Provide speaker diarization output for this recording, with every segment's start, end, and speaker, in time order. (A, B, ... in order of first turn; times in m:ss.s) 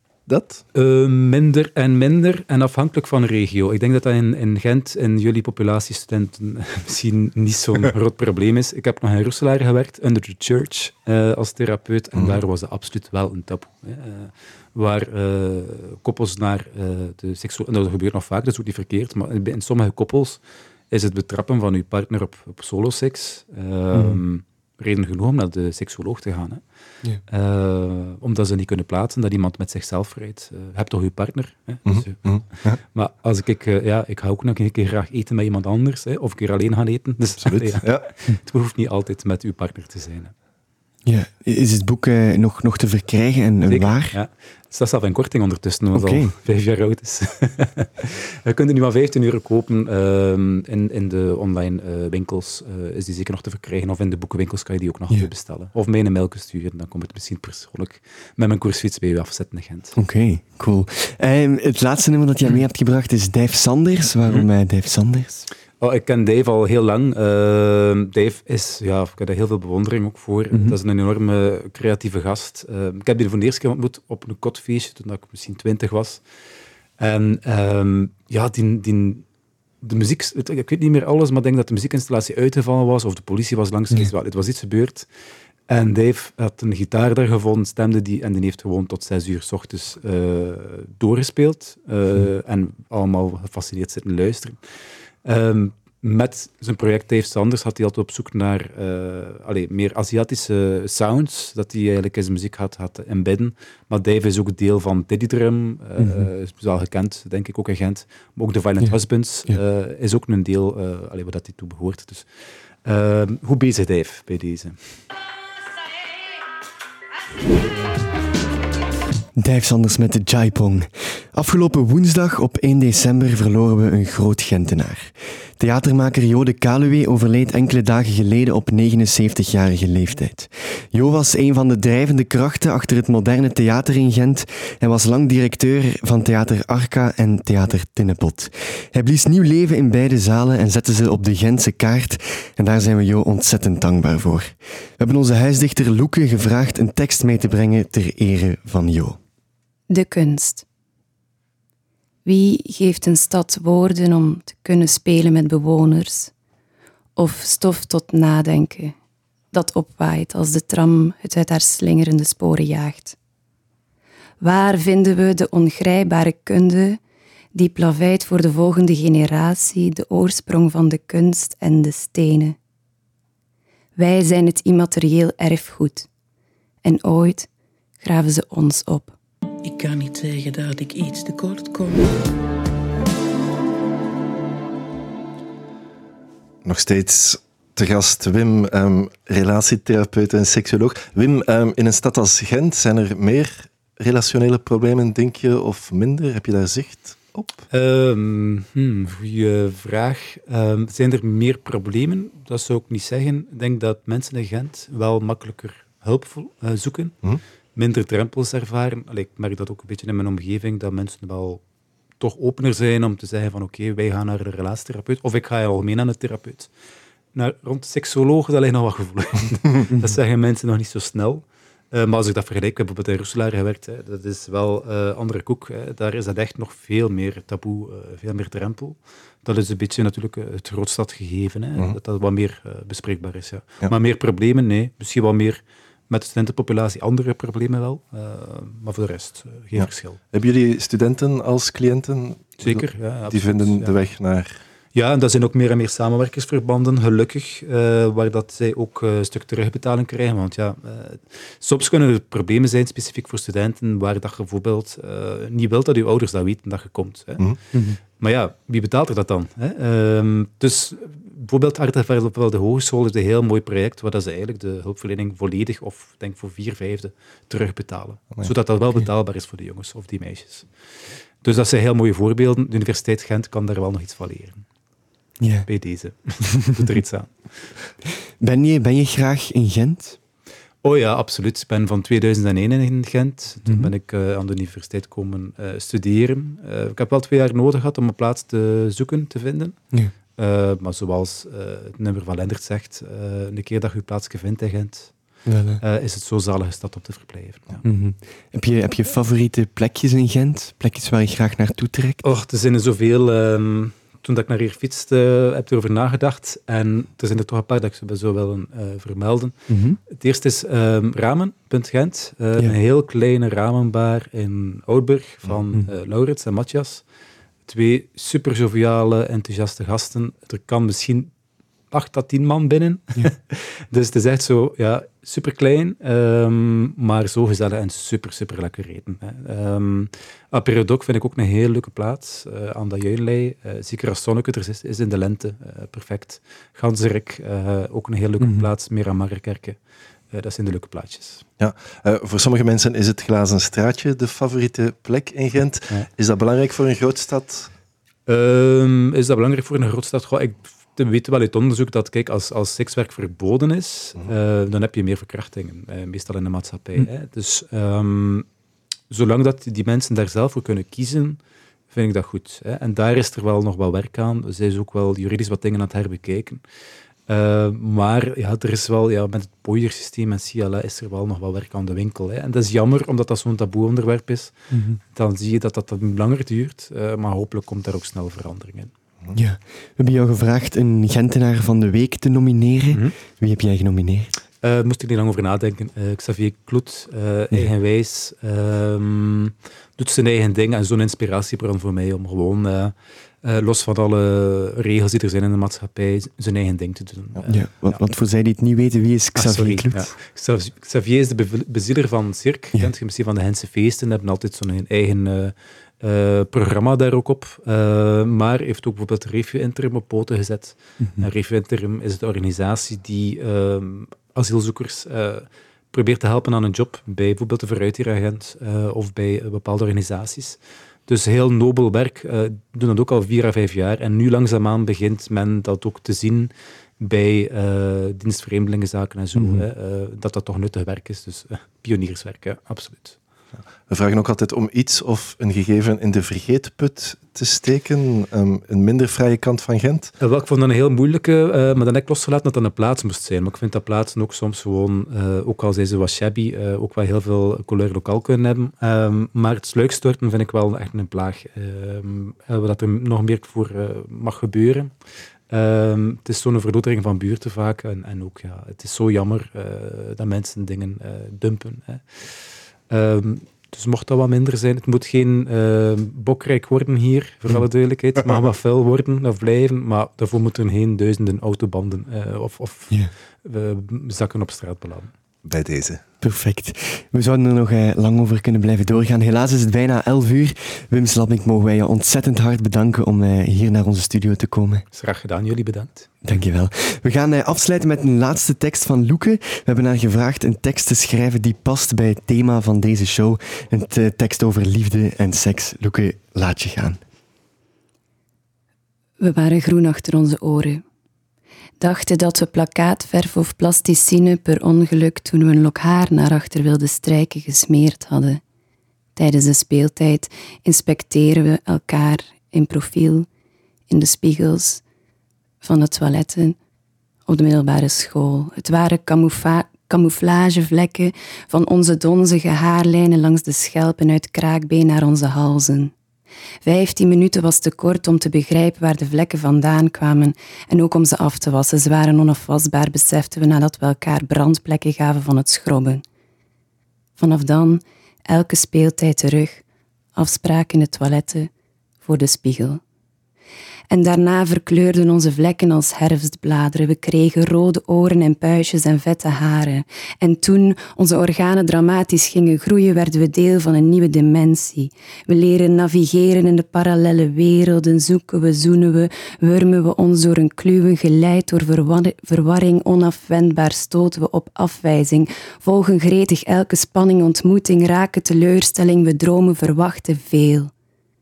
0:00.3-0:00.6 A
0:00.7-0:20.4 B
0:20.9-0:26.6 B
0:23.9-0:24.2 C
0:27.3-0:32.3 B
0:31.9-0:32.8 A
0:32.8-0:40.3 B
0:37.4-0:38.1 A
0:41.0-0:44.2 C
0:43.7-1:00.0 B
0:45.9-0:46.3 C
1:00.0-1:05.5 C
1:05.8-1:16.2 B
1:10.5-1:10.8 C
1:17.0-1:19.2 B
1:19.8-1:25.1 B
1:25.7-1:34.6 B
1:35.2-1:52.3 B
1:46.0-1:46.3 C
1:52.8-1:54.8 B
1:59.4-2:29.2 C
2:29.9-2:30.6 D
2:32.2-2:36.3 D
2:37.2-2:39.0 D
2:39.5-2:43.2 D
2:44.4-2:47.0 D
2:47.5-2:52.6 D
2:54.0-2:56.1 D
2:56.8-2:57.5 D
2:58.0-2:59.2 D
2:59.6-3:02.0 E
3:06.6-3:17.6 A
3:17.7-3:27.2 B
3:27.8-3:31.6 B
3:32.2-3:36.7 B
3:37.3-4:00.2 B
3:59.8-4:04.6 A
4:02.6-4:04.0 B
4:04.9-4:17.4 B
4:17.7-4:18.0 C
4:18.2-4:30.7 B
4:31.4-4:34.7 B
4:35.4-4:35.7 C
4:35.7-4:37.4 B
4:38.4-4:40.2 C
4:40.8-4:49.8 B
4:43.7-4:43.9 C
4:50.4-4:55.1 B
4:55.5-4:55.8 C
4:55.8-4:57.8 B
4:57.8-5:02.2 C
5:02.2-5:09.6 B
5:09.7-5:10.0 C
5:10.1-5:17.0 B
5:17.7-5:21.3 B
5:21.9-5:39.8 B
5:38.4-5:38.7 C
5:40.3-5:41.4 B
5:41.6-5:47.7 A
5:48.3-5:58.5 B
5:59.1-6:01.4 B
6:01.9-6:06.6 B
6:07.3-6:14.6 B
6:14.7-6:15.0 C
6:15.1-6:18.9 B
6:19.3-6:24.3 C
6:24.6-6:38.0 B
6:37.5-6:40.1 C
6:39.4-7:13.2 B
7:09.4-7:09.6 C
7:13.9-7:20.1 A
7:20.2-7:34.9 B
7:35.5-7:42.2 B
7:42.9-7:55.1 B
7:55.4-7:56.0 A
7:56.2-8:04.8 C
8:04.9-8:06.1 B
8:06.2-8:17.0 C
8:19.2-8:20.8 D
8:21.8-8:28.4 D
8:29.2-8:33.3 D
8:33.9-8:34.8 D
8:35.6-8:36.6 D
8:37.3-8:45.9 D
8:46.6-8:56.0 D
8:57.2-8:59.6 D
9:00.2-9:01.5 D
9:02.0-9:02.8 D
9:03.9-9:30.7 D